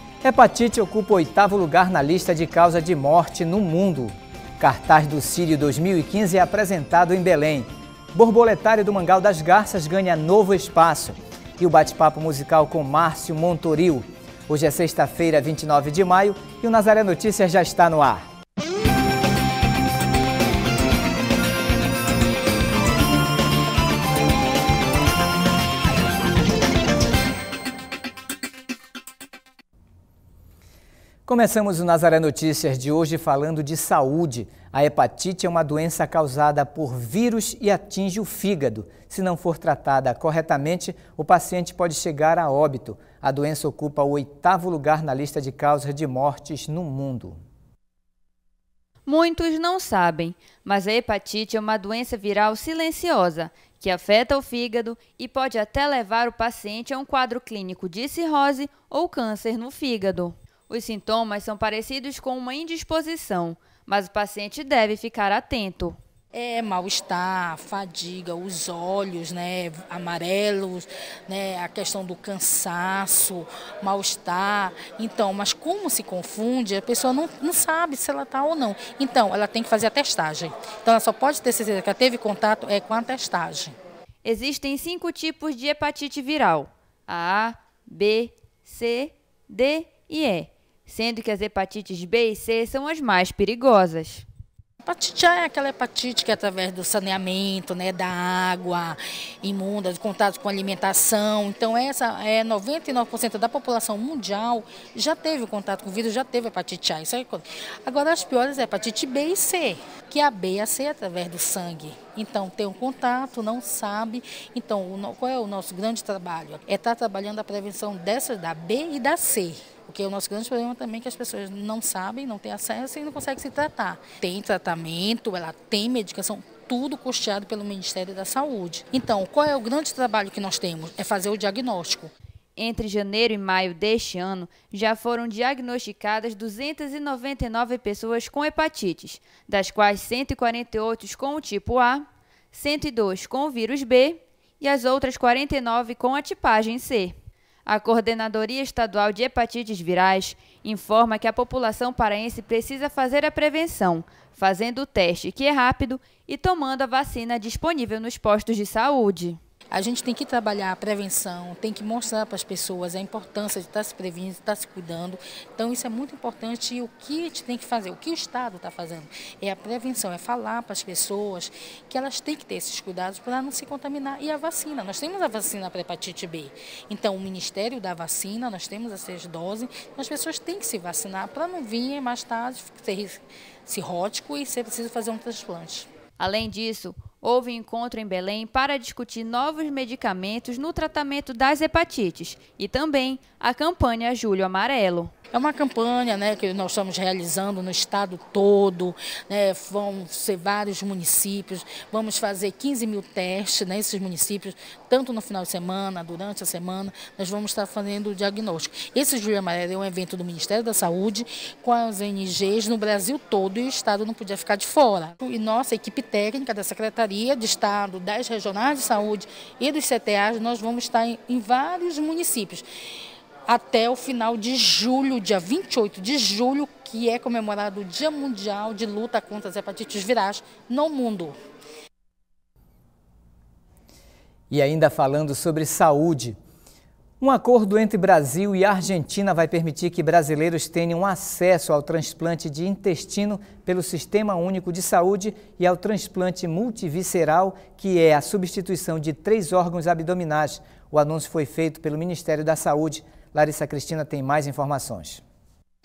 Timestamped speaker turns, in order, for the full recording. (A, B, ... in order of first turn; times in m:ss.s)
0:00.2-0:18.3 A
0:31.3-0:47.4 A
0:49.0-1:06.0 B
1:06.3-1:23.8 C
1:24.2-1:34.2 B
1:34.8-2:12.1 C
2:12.6-2:27.1 B
2:27.7-2:39.4 B
2:39.7-3:05.9 C
3:06.2-3:15.1 B
3:15.3-3:42.7 C
3:43.5-3:51.4 C
3:54.5-3:56.4 A
3:57.2-4:15.2 A